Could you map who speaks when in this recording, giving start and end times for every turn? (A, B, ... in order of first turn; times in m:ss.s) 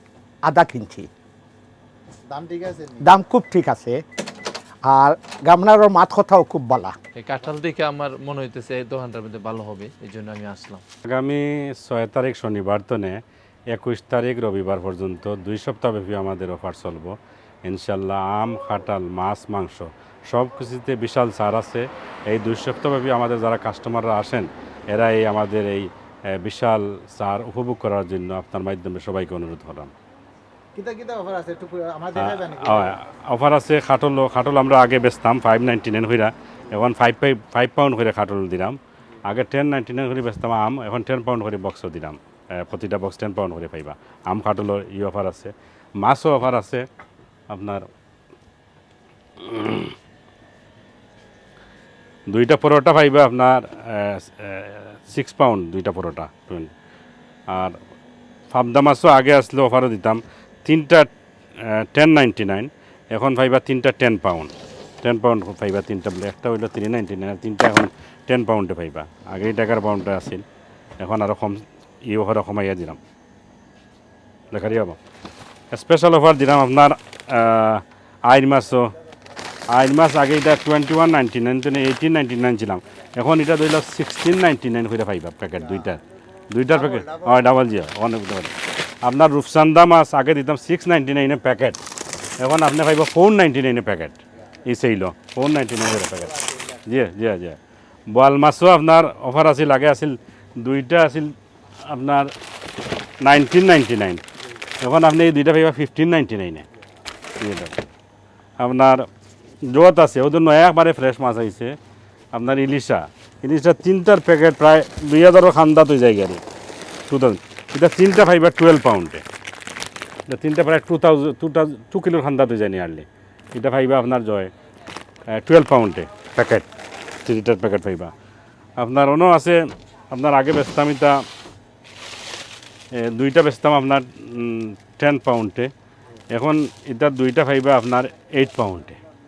0:00.4-0:01.1 A
0:02.3-0:03.1 B
0:03.0-0:04.0 A
0:04.8-0:07.0 A
0:07.2-0:10.8 C
0:11.0-0:13.2 D
0:13.7-0:29.9 D
0:30.7-0:33.0 B
0:32.2-0:46.9 D
0:47.5-0:47.9 D
0:49.4-0:49.9 D
0:52.3-0:56.7 D
0:57.5-0:57.8 D
0:58.5-1:10.4 D
1:11.0-1:13.0 D
1:14.5-1:15.0 D
1:15.7-1:18.9 D
1:19.7-1:31.8 D
1:25.6-1:25.9 B
1:26.7-1:27.5 B
1:32.4-1:36.3 D
1:36.2-1:36.8 B
1:36.9-1:42.3 D
1:43.2-1:44.2 D
1:44.8-1:46.6 D
1:47.4-1:47.8 D
1:48.6-1:49.1 D
1:49.6-1:51.8 D
1:52.3-1:56.4 D
1:57.1-1:59.2 D
2:00.3-2:04.5 D
2:05.3-2:06.6 D
2:07.2-2:08.1 D
2:08.8-2:11.2 D
2:12.9-2:15.7 D
2:16.3-2:19.0 D